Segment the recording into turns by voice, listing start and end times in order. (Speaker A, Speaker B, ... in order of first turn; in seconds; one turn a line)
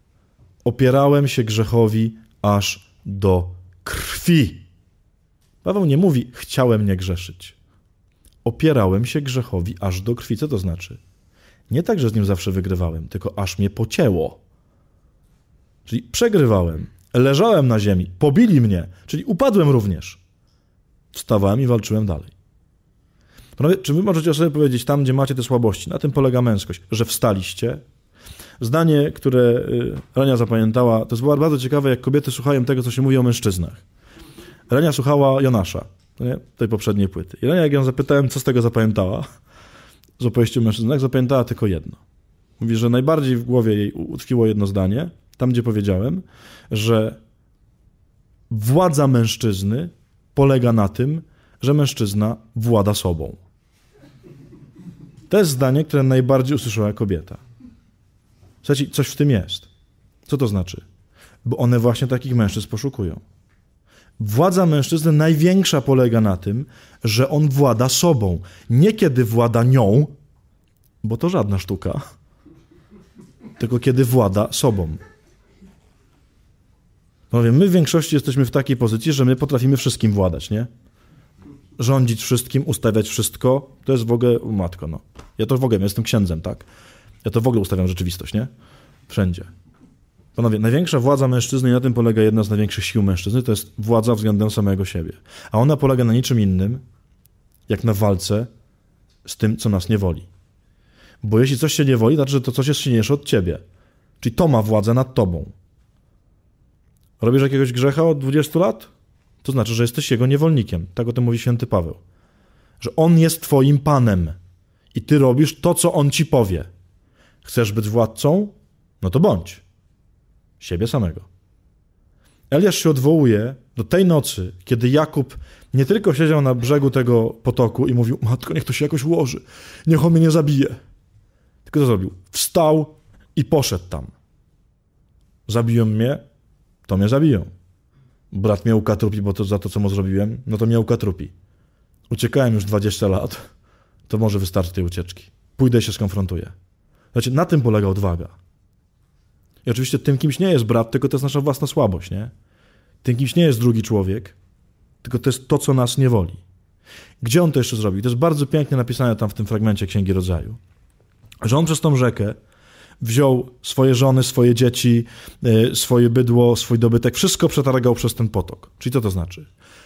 Speaker A: 0.6-4.6
Speaker A: 5.6-7.5
Speaker A: 8.4-11.0
Speaker A: 11.7-14.4
Speaker A: 15.9-20.2
Speaker A: 21.1-22.3
Speaker A: 23.6-27.8
Speaker A: 28.6-33.8
Speaker A: 34.7-39.3
Speaker A: 40.2-42.0
Speaker A: 42.6-47.2
Speaker A: 48.5-53.4
Speaker A: 55.3-57.4
Speaker A: 58.6-59.7
Speaker A: 60.3-60.8
Speaker A: 61.5-63.2
Speaker A: 64.2-70.1
Speaker A: 71.0-72.0
Speaker A: 73.6-75.0
Speaker A: 77.3-80.7
Speaker A: 81.8-86.7
Speaker A: 87.2-88.5
Speaker A: 89.1-89.5
Speaker A: 90.4-96.8
Speaker A: 97.7-98.5
Speaker A: 99.2-100.3
Speaker A: 101.2-103.6
Speaker A: 104.2-105.5
Speaker A: 107.2-108.9
Speaker A: 109.4-112.0
Speaker A: 112.8-114.4
Speaker A: 114.9-116.7
Speaker A: 117.4-119.6
Speaker A: 120.6-121.2
Speaker A: 122.5-130.8
Speaker A: 131.7-134.1
Speaker A: 135.5-136.2
Speaker A: 136.9-137.5
Speaker A: 138.3-141.3
Speaker A: 142.1-143.5
Speaker A: 144.1-146.5
Speaker A: 147.1-148.3
Speaker A: 149.7-152.3
Speaker A: 153.0-154.3
Speaker A: 155.0-156.4
Speaker A: 157.2-160.6
Speaker A: 161.4-162.4
Speaker A: 163.0-169.5